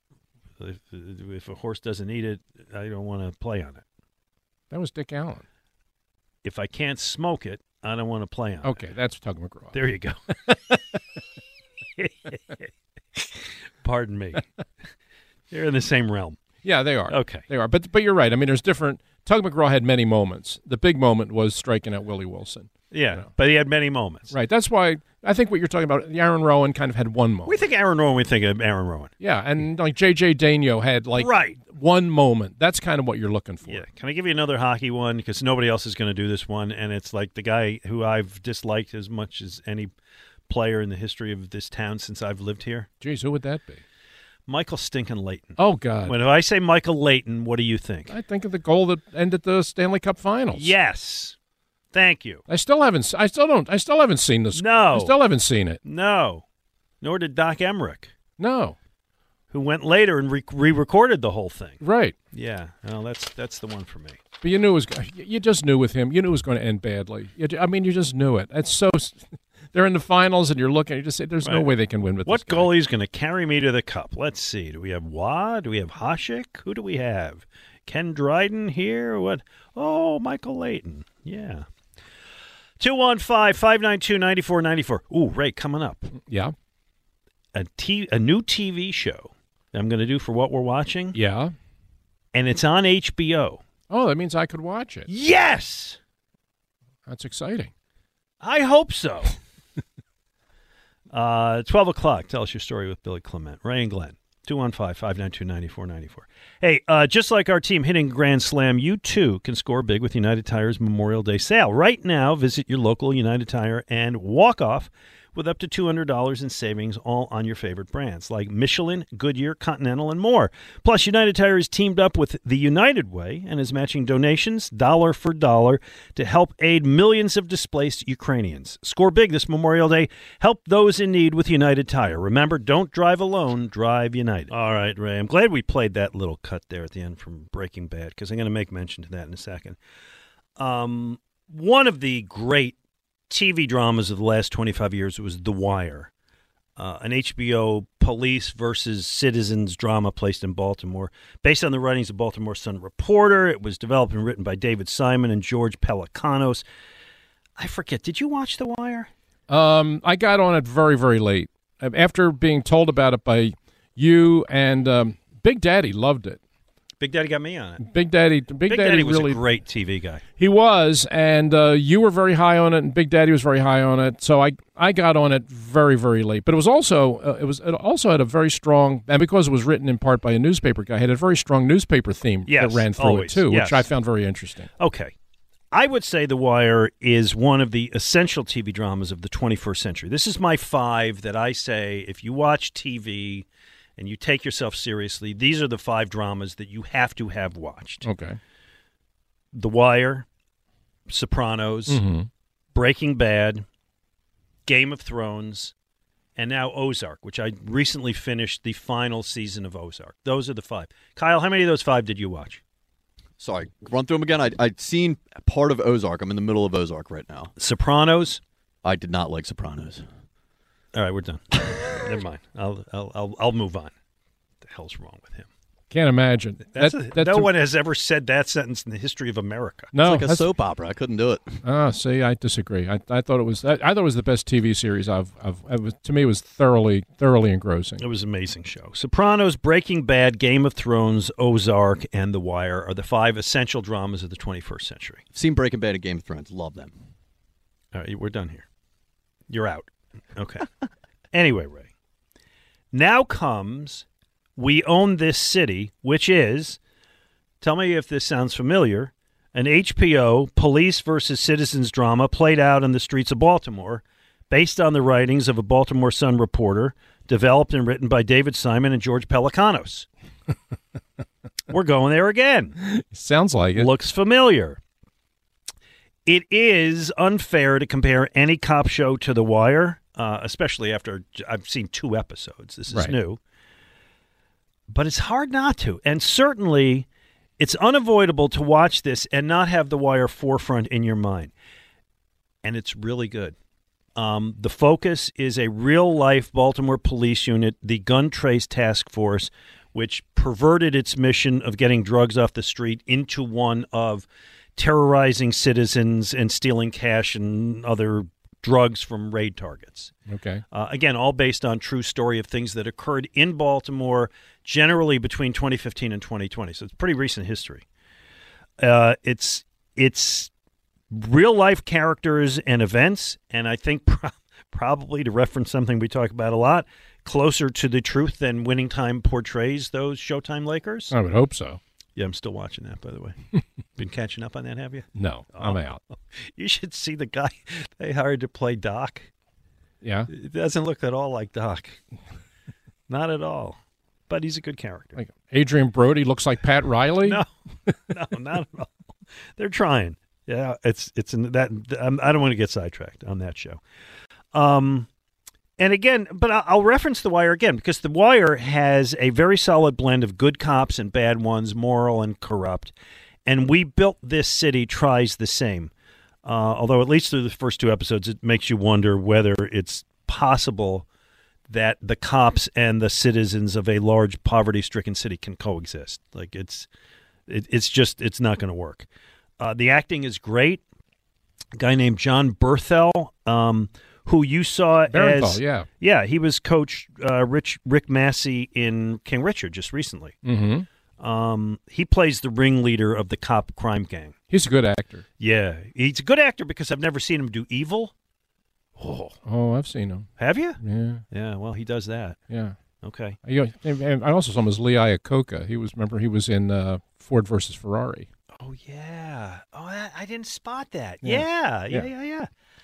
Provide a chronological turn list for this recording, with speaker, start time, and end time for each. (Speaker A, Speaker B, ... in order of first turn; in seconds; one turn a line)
Speaker A: 0.6-3.8
Speaker B: 4.7-5.4
Speaker A: 6.4-8.7
Speaker B: 8.6-9.8
Speaker A: 9.7-10.2
Speaker A: 12.0-12.7
Speaker A: 13.2-14.4
Speaker A: 15.5-16.4
Speaker B: 16.6-23.3
Speaker A: 17.1-17.4
Speaker A: 22.9-24.3
Speaker B: 24.3-27.5
Speaker A: 27.4-29.1
Speaker B: 29.2-33.8
Speaker A: 31.1-31.6
Speaker A: 33.6-39.9
Speaker A: 40.5-42.9
Speaker B: 43.0-43.8
Speaker A: 44.5-48.1
Speaker B: 45.6-46.1
Speaker B: 48.1-50.7
Speaker A: 50.5-51.4
Speaker A: 51.9-52.4
Speaker B: 52.5-55.8
Speaker A: 54.5-55.1
Speaker A: 55.8-56.4
Speaker A: 57.0-58.1
Speaker B: 58.4-58.8
Speaker A: 59.5-64.2
Speaker B: 61.8-62.1
Speaker B: 64.4-72.7
Speaker A: 71.4-71.7
Speaker A: 72.2-81.7
Speaker A: 82.8-86.1
Speaker B: 86.2-86.5
Speaker A: 87.5-91.2
Speaker B: 91.1-91.5
Speaker A: 92.3-93.6
Speaker B: 93.9-95.1
Speaker A: 95.1-96.0
Speaker B: 97.1-97.7
Speaker A: 98.4-99.3
Speaker A: 101.1-139.8
Speaker A: 140.6-142.8
Speaker A: 143.3-146.1
Speaker A: 146.8-156.6
Speaker A: 157.6-159.1
Speaker B: 159.5-166.4
Speaker A: 167.0-167.8
Speaker B: 167.8-169.4
Speaker A: 168.7-170.2
Speaker B: 170.4-184.7
Speaker A: 182.5-183.9
Speaker A: 184.8-185.1
Speaker A: 185.7-193.4
Speaker A: 194.0-198.0
Speaker B: 198.0-198.4
Speaker A: 199.5-200.2
Speaker A: 201.1-202.0
Speaker B: 201.9-202.3
Speaker A: 202.7-203.6
Speaker A: 204.7-205.7
Speaker A: 206.3-212.6
Speaker C: 213.4-217.5
Speaker A: 217.6-218.4
Speaker C: 218.8-220.0
Speaker A: 220.9-223.9
Speaker A: 224.6-225.5
Speaker B: 225.9-227.5
Speaker A: 226.7-229.9
Speaker B: 229.9-230.5
Speaker C: 230.0-231.6
Speaker B: 231.6-238.0
Speaker A: 238.0-245.2
Speaker C: 245.3-246.9
Speaker A: 247.9-248.6
Speaker A: 249.5-250.7
Speaker A: 251.3-251.9
Speaker A: 252.9-254.0
Speaker A: 254.6-256.8
Speaker A: 257.6-270.1
Speaker A: 271.7-272.8
Speaker B: 272.8-273.9
Speaker A: 273.8-274.8
Speaker A: 276.2-283.4
Speaker A: 284.9-287.1
Speaker A: 287.6-291.5
Speaker A: 292.6-293.5
Speaker A: 294.1-310.1
Speaker B: 310.3-310.6
Speaker A: 310.7-317.8
Speaker A: 318.8-320.5
Speaker A: 321.1-331.1
Speaker B: 331.1-331.8
Speaker A: 332.2-333.4
Speaker A: 334.0-339.3
Speaker B: 335.1-336.0
Speaker B: 340.0-340.3
Speaker A: 340.3-342.0
Speaker A: 343.1-345.2
Speaker B: 345.1-347.4
Speaker A: 347.2-347.5
Speaker A: 348.1-348.9
Speaker A: 349.6-353.8
Speaker A: 354.5-355.1
Speaker A: 355.8-362.9
Speaker A: 363.4-365.9
Speaker A: 366.4-371.0
Speaker A: 371.7-376.9
Speaker A: 377.5-379.1
Speaker A: 379.6-380.8
Speaker A: 381.8-390.4
Speaker B: 385.1-385.9
Speaker B: 390.4-390.9
Speaker A: 391.2-394.4
Speaker B: 394.5-395.2
Speaker A: 395.4-398.1
Speaker A: 399.0-399.4
Speaker B: 399.4-400.3
Speaker A: 400.4-402.4
Speaker B: 400.8-401.2
Speaker B: 402.5-402.8
Speaker A: 403.0-403.4
Speaker B: 403.4-408.3
Speaker A: 408.5-412.5
Speaker B: 411.2-412.1